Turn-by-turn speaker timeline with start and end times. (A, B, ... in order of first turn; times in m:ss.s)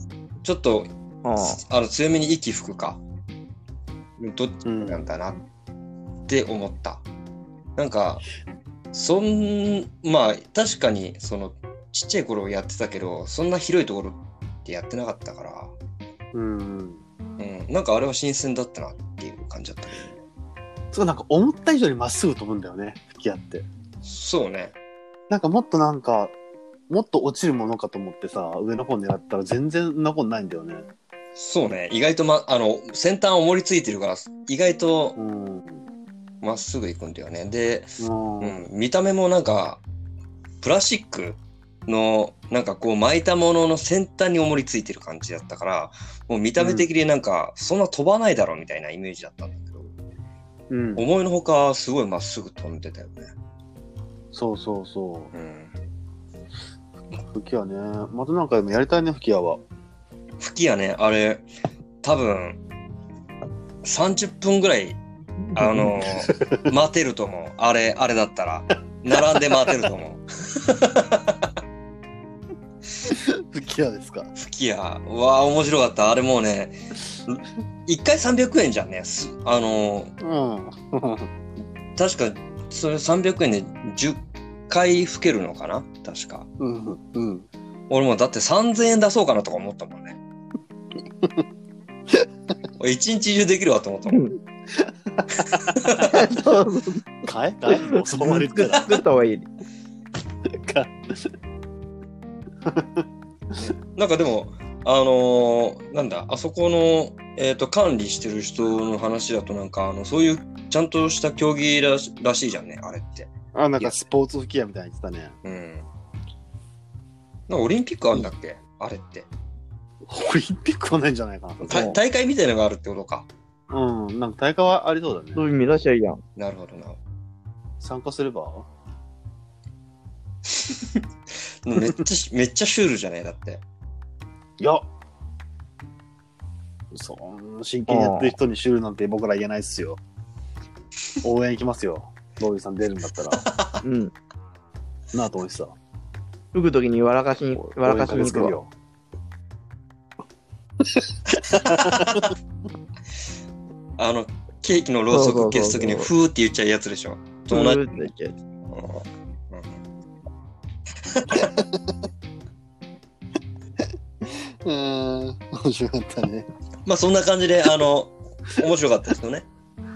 0:00.4-0:03.0 A
0:01.2-0:01.6 B
0:04.2-0:05.4 A
0:04.6-0:05.0 C
0:06.3-0:07.0 A
0:07.8-0:08.2 A
0:08.9-0:15.7 A
0:16.3-0:17.0 C
0:17.4-0:20.2 A
0:20.9-0:23.7 C
0:24.0-0:24.7 A
0:25.3-0:26.3 C
0:26.9-0:30.9 C
0:31.4-0:35.2 A
0:35.2-0:35.8 C
0:36.4-0:39.8 A
0:38.0-0:38.6 C
0:40.6-0:49.9 A
0:46.6-0:46.9 C
0:50.7-0:51.0 C
0:51.0-0:53.3 A
0:54.3-0:55.3 C
0:55.3-0:55.7 A
0:57.2-0:59.6 C
1:00.4-1:01.4 A
1:02.0-1:02.6 A
1:03.8-1:05.0 A
1:05.4-1:05.9 B
1:05.5-1:11.5 A
1:06.2-1:06.6 C
1:09.2-1:09.7 C
1:13.0-1:14.3 C
1:14.4-1:20.1 A
1:20.2-1:21.3 C
1:22.0-1:26.5 A
1:26.6-1:27.5 C
1:27.9-1:30.2 A
1:32.8-1:34.2 A
1:34.1-1:34.4 B
1:34.7-1:36.2 C
1:35.6-1:36.2 A
1:36.0-1:37.0 B
1:37.2-1:39.0 C
1:37.7-1:39.5 B
1:40.5-1:41.3 C
1:42.6-1:43.0 C
1:43.9-1:54.0 A
1:53.5-1:55.3 C
1:55.4-1:55.9 A
1:57.5-1:59.3 A
2:00.0-2:01.9 C
2:01.6-2:03.3 A
2:01.7-2:02.0 B
2:03.7-2:05.4 C
2:05.4-2:06.2 B
2:06.4-2:07.0 A
2:07.8-2:08.7 C
2:10.5-2:11.0 A
2:11.6-2:13.6 A
2:14.6-2:14.8 C
2:16.9-2:20.0 C
2:17.9-2:18.4 B
2:21.2-2:23.4 C
2:23.3-2:23.8 A
2:23.8-2:24.1 B
2:25.1-2:25.8 C
2:26.5-2:28.5 B
2:27.5-2:28.7 C
2:31.5-2:32.3 A
2:31.5-2:32.3 C
2:34.0-2:37.8 A
2:35.1-2:36.1 B
2:37.5-2:38.3 B
2:38.7-2:39.8 A
2:41.1-2:41.5 A
2:41.3-2:41.9 C
2:44.2-2:46.5 C
2:46.8-2:49.4 A